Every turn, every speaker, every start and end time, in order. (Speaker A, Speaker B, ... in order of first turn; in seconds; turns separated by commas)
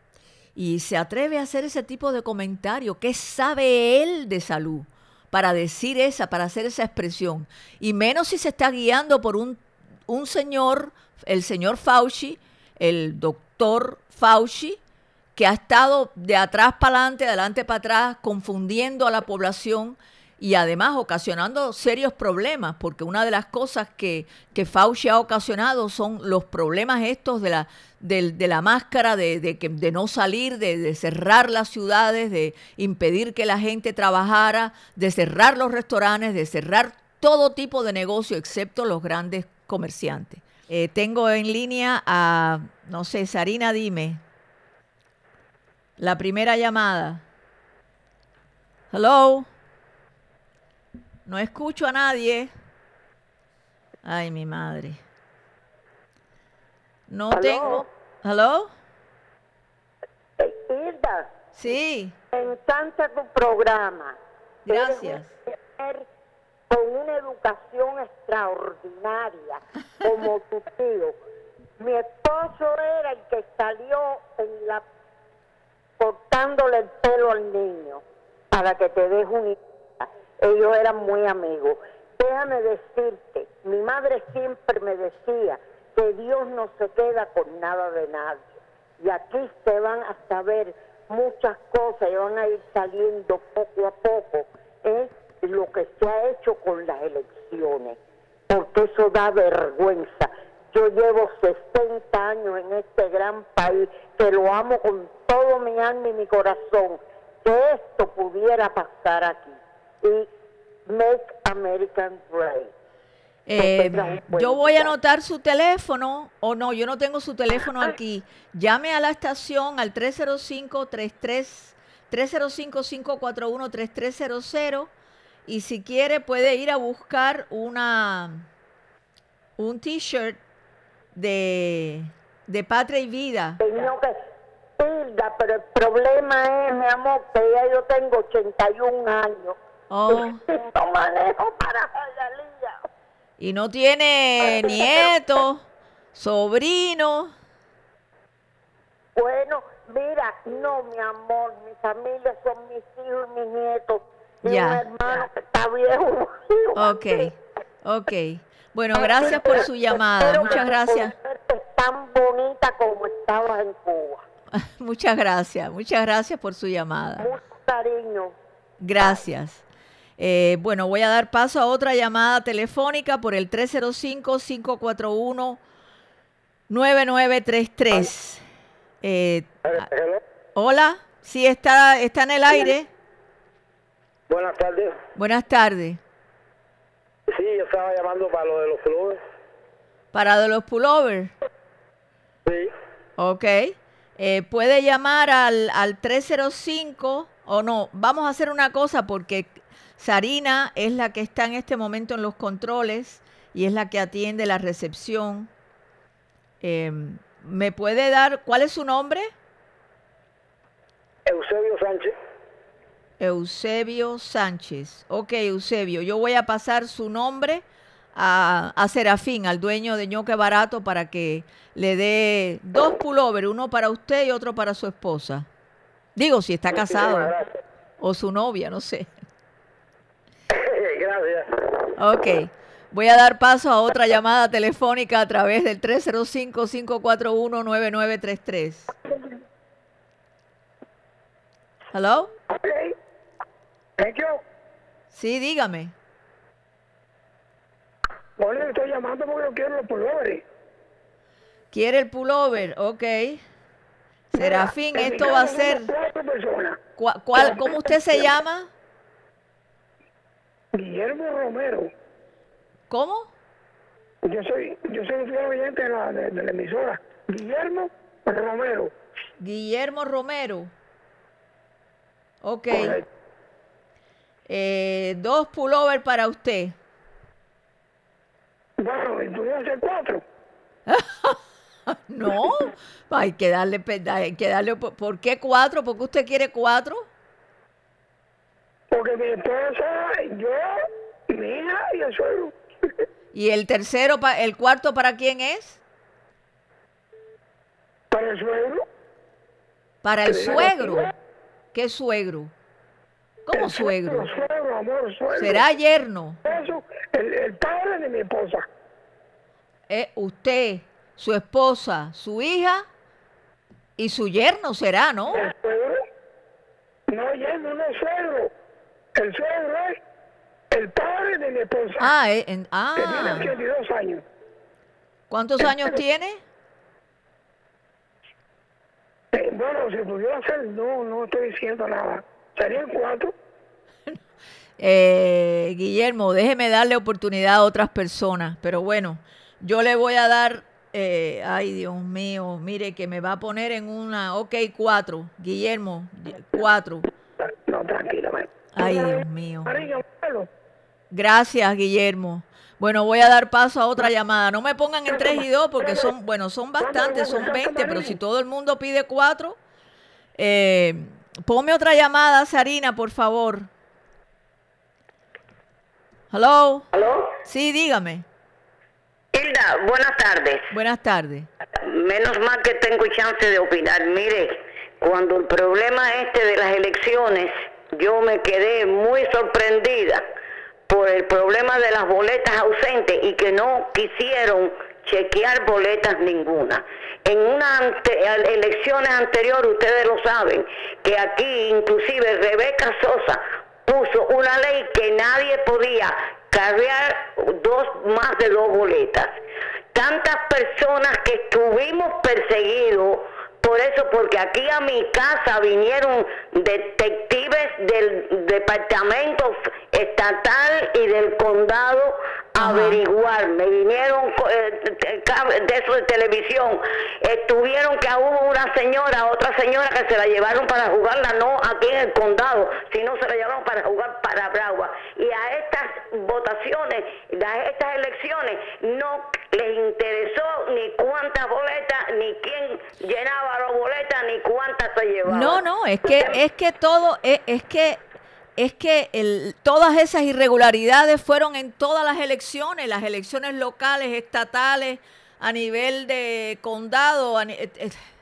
Speaker A: 0.6-14.8, Speaker A: 15.4-44.2, Speaker A: 46.0-47.2, Speaker A: 48.9-49.5, Speaker A: 51.3-52.5, Speaker A: 54.0-55.0, Speaker A: 57.1-58.7, Speaker B: 57.3-57.6, Speaker B: 60.4-61.3, Speaker A: 61.6-62.2, Speaker B: 62.3-64.2, Speaker A: 64.7-65.3, Speaker B: 64.7-66.1, Speaker B: 66.7-71.2, Speaker B: 71.8-74.8, Speaker B: 76.0-110.3, Speaker B: 110.9-112.7, Speaker A: 113.5-124.9, Speaker B: 113.6-114.9, Speaker A: 125.5-128.5, Speaker A: 129.6-130.4, Speaker A: 131.2-133.6, Speaker B: 133.6-134.2, Speaker B: 134.8-139.6, Speaker A: 139.9-140.4, Speaker B: 140.1-142.8, Speaker A: 143.4-147.3, Speaker B: 144.5-144.9, Speaker B: 149.2-157.1, Speaker A: 154.4-154.8, Speaker A: 156.8-161.1, Speaker B: 159.0-159.7, Speaker B: 160.2-164.2, Speaker A: 164.6-167.3, Speaker B: 167.2-168.4, Speaker A: 168.8-169.6, Speaker A: 170.2-175.6, Speaker A: 176.7-178.4, Speaker A: 179.0-179.9, Speaker C: 179.6-180.2, Speaker A: 180.6-182.9, Speaker C: 184.3-185.0, Speaker A: 185.2-186.0, Speaker C: 187.3-189.2, Speaker A: 190.1-191.3, Speaker A: 193.2-205.5, Speaker A: 206.6-209.3, Speaker C: 211.3-212.1, Speaker A: 213.2-217.6, Speaker A: 218.2-225.5, Speaker A: 226.2-227.3, Speaker C: 226.9-227.5, Speaker A: 228.0-229.1, Speaker C: 230.5-231.5, Speaker A: 232.0-238.9, Speaker A: 241.9-242.3, Speaker D: 242.5-242.9, Speaker D: 244.0-244.4, Speaker A: 245.1-245.9, Speaker D: 248.4-250.4, Speaker A: 251.7-253.4, Speaker A: 254.3-255.9, Speaker D: 254.4-256.8, Speaker A: 257.0-258.7, Speaker D: 260.8-261.9, Speaker A: 262.9-263.3, Speaker D: 264.2-268.9, Speaker A: 269.4-270.7, Speaker A: 272.4-273.0, Speaker D: 272.7-273.0, Speaker A: 274.5-276.8, Speaker D: 278.8-280.2, Speaker A: 280.9-287.1, Speaker D: 288.9-292.6, Speaker A: 293.3-295.8, Speaker D: 298.1-298.9, Speaker A: 300.0-301.1, Speaker D: 300.3-301.1, Speaker A: 301.7-302.5, Speaker A: 303.5-304.3, Speaker D: 303.5-305.6, Speaker A: 305.3-306.4, Speaker D: 306.4-308.7, Speaker A: 309.9-312.9, Speaker A: 314.0-315.5, Speaker D: 315.3-316.0, Speaker D: 317.1-318.5, Speaker D: 319.2-320.0, Speaker D: 320.7-322.1, Speaker A: 322.0-323.5, Speaker D: 323.0-324.2, Speaker A: 325.3-326.4, Speaker D: 329.3-333.3, Speaker A: 334.8-347.1, Speaker D: 347.7-350.5, Speaker A: 348.8-349.8, Speaker A: 351.1-359.6, Speaker D: 355.1-356.1, Speaker D: 356.8-358.2, Speaker A: 360.4-363.7, Speaker A: 366.3-366.9, Speaker E: 366.9-367.3, Speaker A: 367.4-368.3, Speaker E: 369.3-370.7, Speaker A: 370.7-371.5, Speaker E: 371.8-380.2, Speaker E: 380.9-399.4, Speaker E: 399.9-436.4, Speaker A: 412.6-413.0, Speaker A: 435.2-438.0, Speaker A: 438.6-448.0